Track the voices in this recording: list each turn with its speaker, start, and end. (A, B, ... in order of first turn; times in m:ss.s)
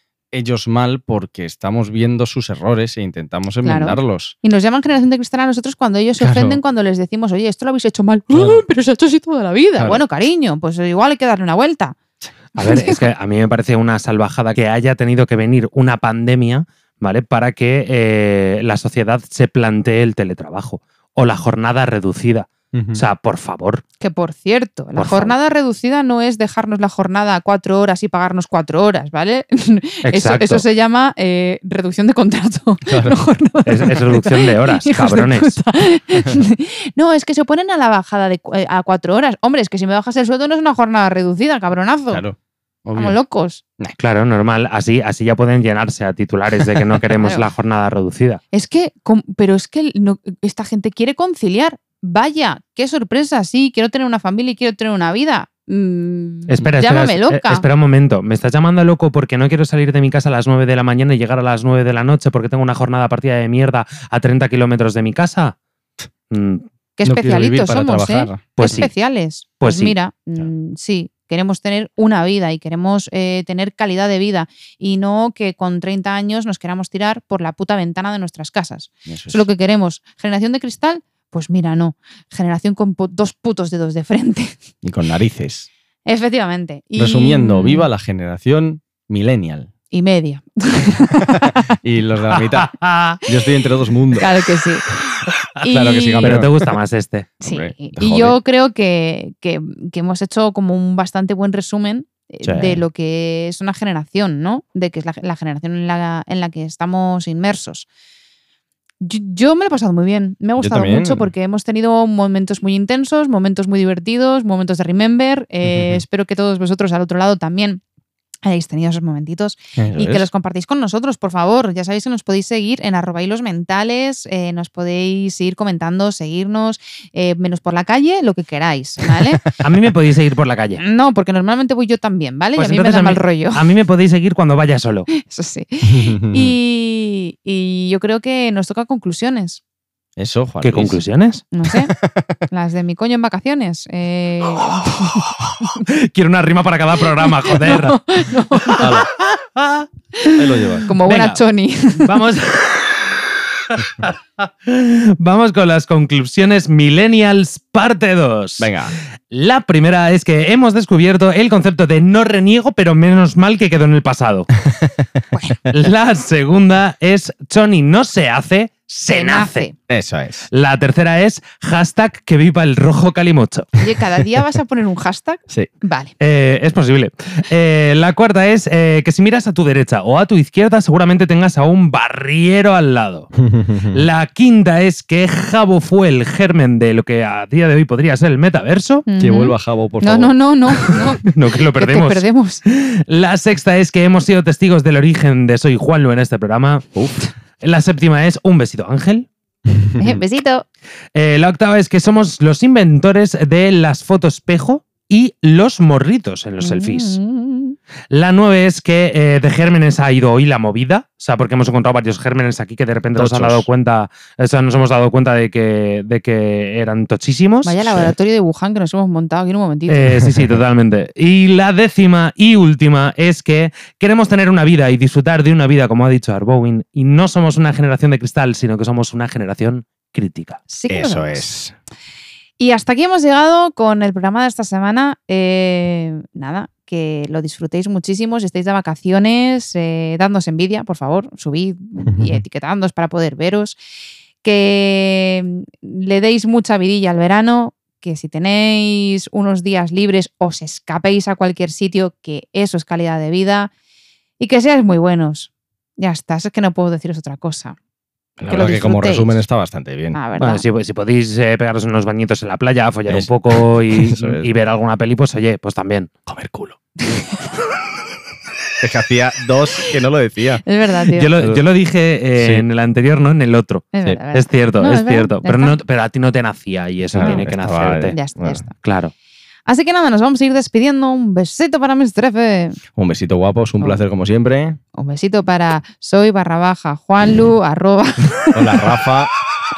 0:00.3-0:04.4 A
0:03.6-0:12.0 B
0:06.2-0:06.6 A
0:08.3-0:08.6 A
0:12.6-0:13.0 B
0:12.6-0:23.8 C
0:22.7-0:23.0 A
0:24.0-0:42.2 B
0:25.0-0:25.3 C
0:30.0-0:30.6 C
0:32.9-0:33.2 A
0:33.7-0:35.6 C
0:42.1-0:43.2 A
0:43.0-0:43.6 B
0:44.0-0:48.4 C
0:47.2-0:47.5 B
0:48.5-0:57.7 B
0:56.5-1:05.6 C
1:06.3-1:06.7 C
1:07.0-1:24.6 B
1:07.0-1:08.6 A
1:08.6-1:08.9 C
1:09.6-1:10.0 C
1:19.1-1:19.4 A
1:24.8-1:25.7 A
1:26.1-1:27.9 B
1:27.0-1:29.7 A
1:29.9-1:31.8 B
1:31.1-1:34.3 A
1:32.3-1:33.2 C
1:34.2-1:36.4 B
1:35.7-1:36.5 A
1:36.2-1:37.3 C
1:37.4-1:47.9 B
1:37.5-1:38.4 A
1:42.4-1:42.8 C
1:49.0-1:57.8 B
1:50.6-1:51.3 A
1:55.6-1:56.0 A
1:58.4-2:09.4 B
1:59.8-2:00.3 A
2:09.6-2:10.8 C
2:10.8-2:13.7 B
2:12.6-2:15.1 C
2:15.1-2:19.6 B
2:15.9-2:16.6 A
2:20.2-2:21.0 A
2:20.6-2:21.4 C
2:21.5-2:21.9 B
2:21.7-2:22.4 A
2:22.5-2:25.2 B
2:25.8-2:28.0 C
2:27.2-2:28.9 B
2:28.6-2:29.9 C
2:28.8-2:29.1 A
2:30.2-2:32.2 B
2:30.4-2:30.9 A
2:31.0-2:31.4 C
2:32.0-2:33.1 C
2:33.7-2:38.8 C
2:38.6-2:39.0 A
2:39.3-2:44.5 C
2:44.6-2:45.1 A
2:45.3-2:45.6 B
2:45.7-2:49.7 C
2:49.1-2:49.7 B
2:49.9-2:50.5 A
2:50.5-2:53.8 C
2:53.8-2:56.1 B
2:56.2-3:03.3 C
3:03.4-3:04.0 A
3:03.8-3:09.1 C
3:09.1-3:12.6 B
3:09.2-3:10.4 A
3:11.2-3:16.9 C
3:17.0-3:17.3 A
3:17.6-3:19.3 C
3:19.7-3:20.2 A
3:20.0-3:20.6 B
3:21.2-3:27.2 C
3:26.6-3:27.8 B
3:28.1-3:38.0 C
3:33.2-3:33.7 A
3:37.6-3:40.2 B
3:39.9-3:50.6 C
3:50.7-3:51.4 B
3:50.9-3:51.8 A
3:52.6-4:03.8 B
4:02.1-4:02.4 A
4:04.4-4:13.7 B
4:14.4-4:17.8 B
4:18.4-4:20.2 A
4:18.5-4:19.4 B
4:20.1-4:20.6 B
4:20.4-4:26.1 C
4:23.1-4:24.5 A
4:26.3-4:27.2 A
4:28.8-4:30.6 A
4:30.6-4:31.3 B
4:31.1-4:38.2 C
4:32.4-4:32.6 A
4:33.9-4:35.8 B
4:37.1-4:38.6 A
4:38.1-4:38.7 B
4:38.8-4:39.1 C
4:39.7-4:42.8 B
4:42.9-4:44.8 A
4:45.0-4:49.0 B
4:48.5-4:49.3 A